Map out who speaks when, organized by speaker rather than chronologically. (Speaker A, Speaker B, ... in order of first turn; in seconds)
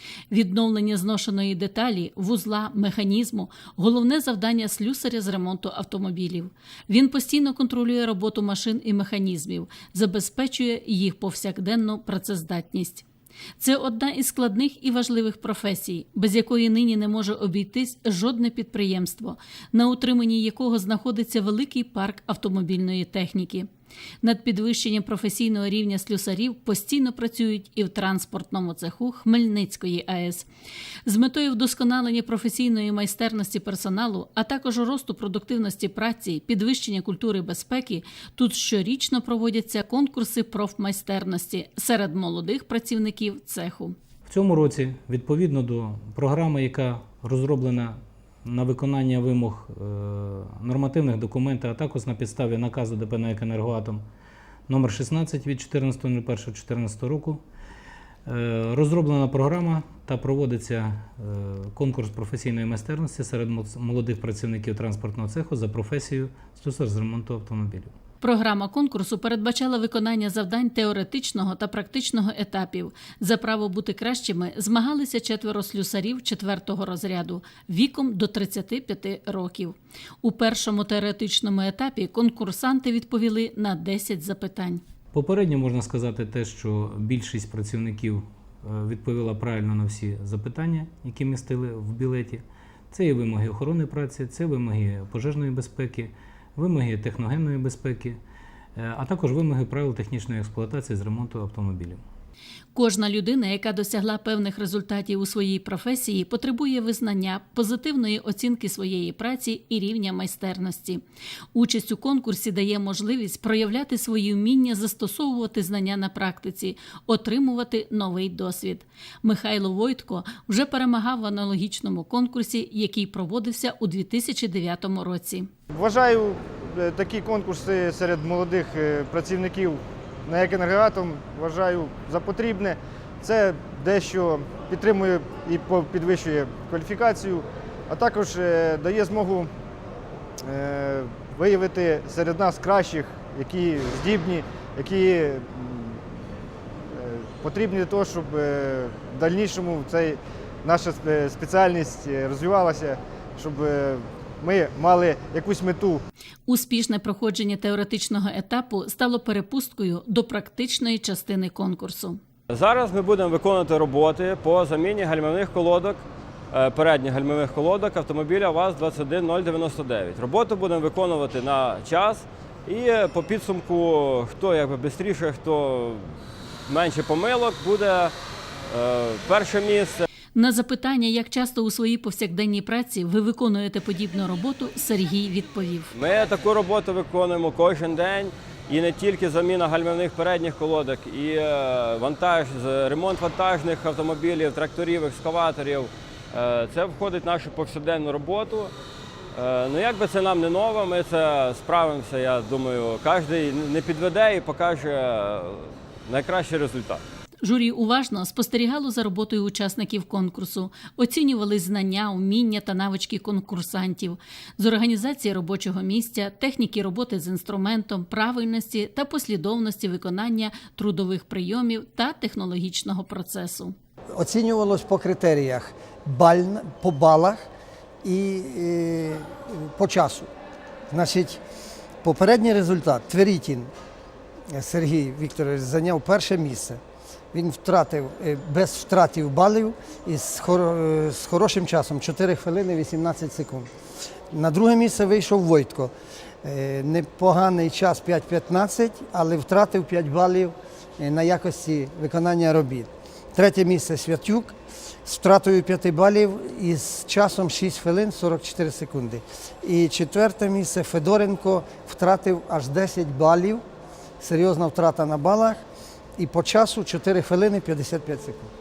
Speaker A: 0.3-13.0, 13.6-23.7, 24.2-30.5, 31.0-43.9, 68.2-84.8, 102.7-111.0, 111.5-125.5, 156.5-162.2, 180.3-185.9, 207.4-223.7
Speaker B: 44.2-54.0, 54.7-57.4, 58.2-67.9, 85.1-98.2, 98.8-102.0
Speaker C: 125.7-139.5, 140.4-146.1, 146.9-156.0
Speaker D: 162.5-178.1, 178.7-180.1, 185.9-198.7, 199.3-207.0
Speaker E: 224.1-227.4, 228.0-230.3, 230.9-231.4, 232.0-233.7, 234.5-236.8, 237.3-243.7, 244.3-245.9, 246.4-263.6, 264.2-265.6, 266.2-268.5